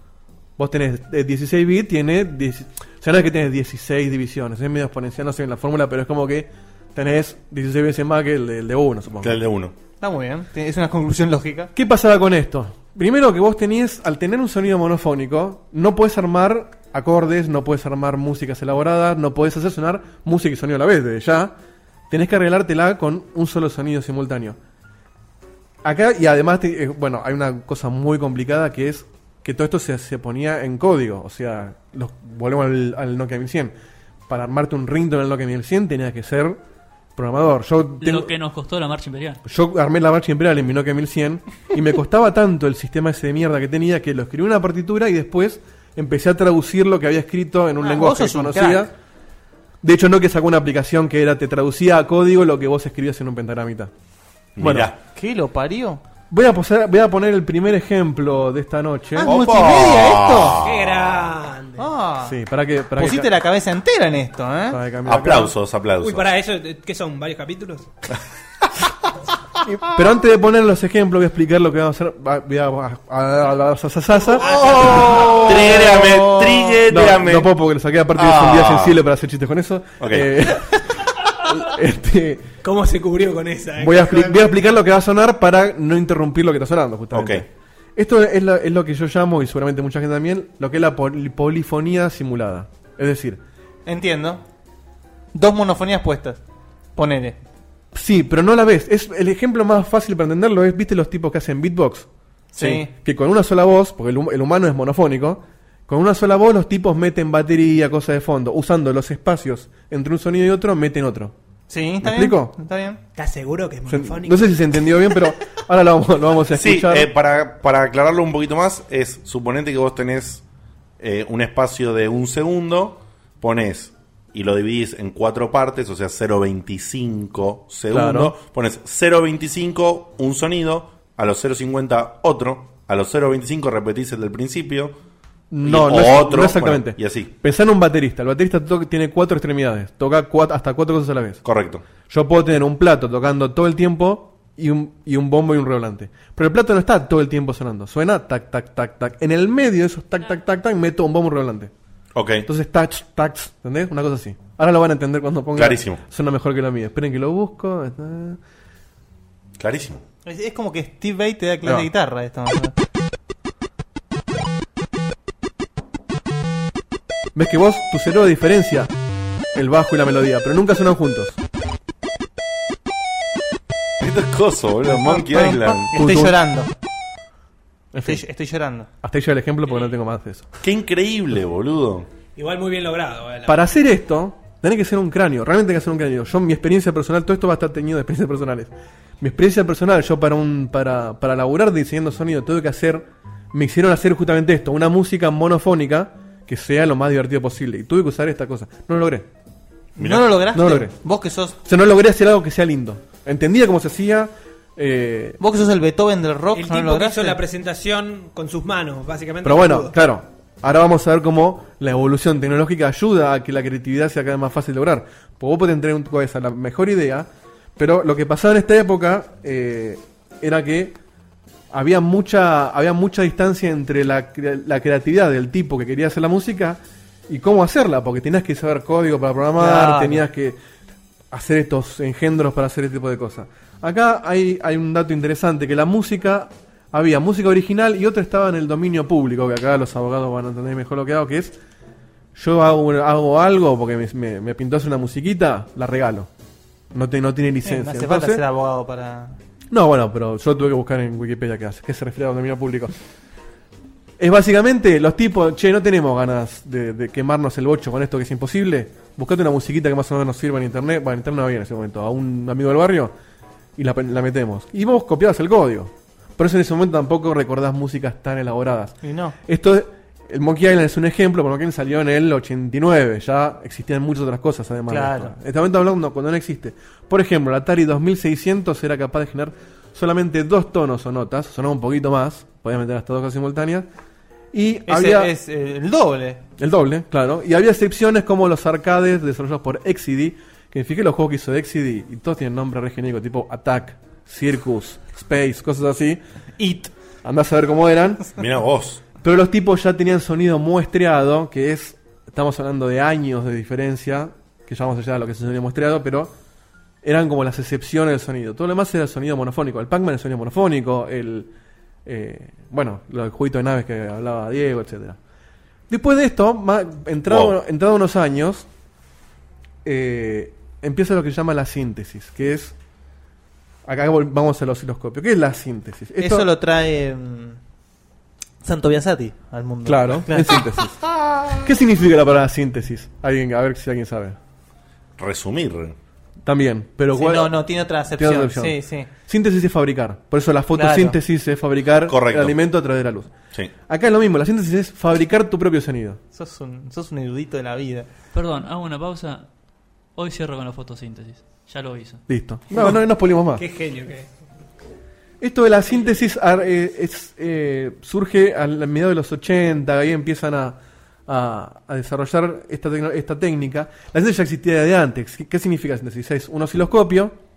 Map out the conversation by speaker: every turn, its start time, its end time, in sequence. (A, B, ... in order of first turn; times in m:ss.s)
0:00.6-0:09.4 A
0:09.2-0:09.7 B
0:10.0-0:11.7 C
0:11.7-0:21.5 A
0:22.1-0:24.6 A
0:25.8-0:33.7 A
0:34.3-0:36.6 A
0:37.2-0:38.3 A
0:38.0-0:39.4 D
0:39.4-0:48.9 A
0:47.8-0:48.8 C
0:49.8-0:53.9 A
0:54.6-0:55.0 B
0:54.6-0:54.9 A
0:55.1-0:56.0 C
0:56.3-0:59.4 A
0:59.1-1:00.6 C
0:59.2-1:01.3 B
1:00.6-1:01.9 E
1:01.8-1:02.4 C
1:02.2-1:03.3 A
1:03.0-1:04.8 C
1:04.7-1:05.5 A
1:05.0-1:06.2 B
1:06.0-1:07.9 E
1:09.8-1:22.5 A
1:14.3-1:15.9 E
1:14.4-1:17.5 B
1:18.1-1:19.0 B
1:20.0-1:20.3 B
1:22.6-1:24.6 E
1:23.8-1:33.4 A
1:27.1-1:27.4 B
1:33.8-1:34.4 C
1:35.3-1:36.4 C
1:37.0-1:37.4 C
1:37.9-1:51.3 A
1:42.5-1:42.9 C
1:51.7-1:53.0 C
1:52.0-1:52.5 A
1:53.1-1:55.3 E
1:53.9-1:57.1 A
1:56.5-2:00.4 B
2:01.0-2:14.9 B
2:07.9-2:08.3 A
2:15.5-2:21.4 A
2:15.6-2:17.3 B
2:21.4-2:21.8 B
2:22.1-2:31.7 A
2:32.1-2:32.5 B
2:32.4-2:38.4 A
2:35.5-2:36.0 B
2:39.6-2:40.0 B
2:40.2-2:42.8 C
2:41.6-2:41.9 A
2:47.3-2:48.9 A
2:49.5-2:51.4 A
2:54.0-2:55.9 B
2:55.0-2:56.7 C
2:55.1-2:56.4 A
2:57.9-2:58.2 A
2:58.0-2:58.9 C
2:59.0-3:00.5 A
3:00.6-3:02.1 B
3:02.3-3:03.7 E
3:03.4-3:19.3 A
3:20.0-3:21.6 C
3:20.0-3:20.3 B
3:20.5-3:20.9 A
3:21.6-3:25.4 A
3:25.4-3:27.4 C
3:26.5-3:29.9 E
3:29.4-3:41.0 A
3:41.7-3:50.6 A
3:49.6-3:50.2 C
3:51.3-4:01.6 A
4:02.3-4:06.3 A
4:06.9-4:08.4 A
4:07.6-4:09.4 C
4:09.7-4:12.9 A
4:14.2-4:23.1 A
4:23.8-4:43.9 A
4:29.0-4:29.4 C
4:34.9-4:35.3 C
4:44.5-4:45.3 A
4:44.9-4:46.4 C
4:46.6-4:56.2 A
4:56.6-4:56.9 C
4:57.2-4:58.3 A
4:58.4-4:59.0 B
4:59.2-5:06.3 A
5:07.0-5:11.5 A
5:12.0-5:15.2 A
5:15.9-5:18.7 A
5:17.3-5:17.5 B
5:19.8-5:22.7 A
5:23.8-5:26.5 A
5:26.2-5:27.6 C
5:28.6-5:30.6 C
5:29.8-5:31.0 A
5:31.2-5:31.6 B
5:31.6-5:34.4 A
5:35.2-5:36.0 B
5:36.4-5:43.3 A
5:37.1-5:39.1 C
5:40.7-5:41.2 C
5:42.1-5:42.6 B
5:43.9-5:46.2 A
5:46.3-5:48.1 C
5:48.3-5:49.5 D
5:50.2-5:52.2 D
5:52.3-5:53.6 A
5:52.7-5:54.3 E
5:55.4-6:07.3 A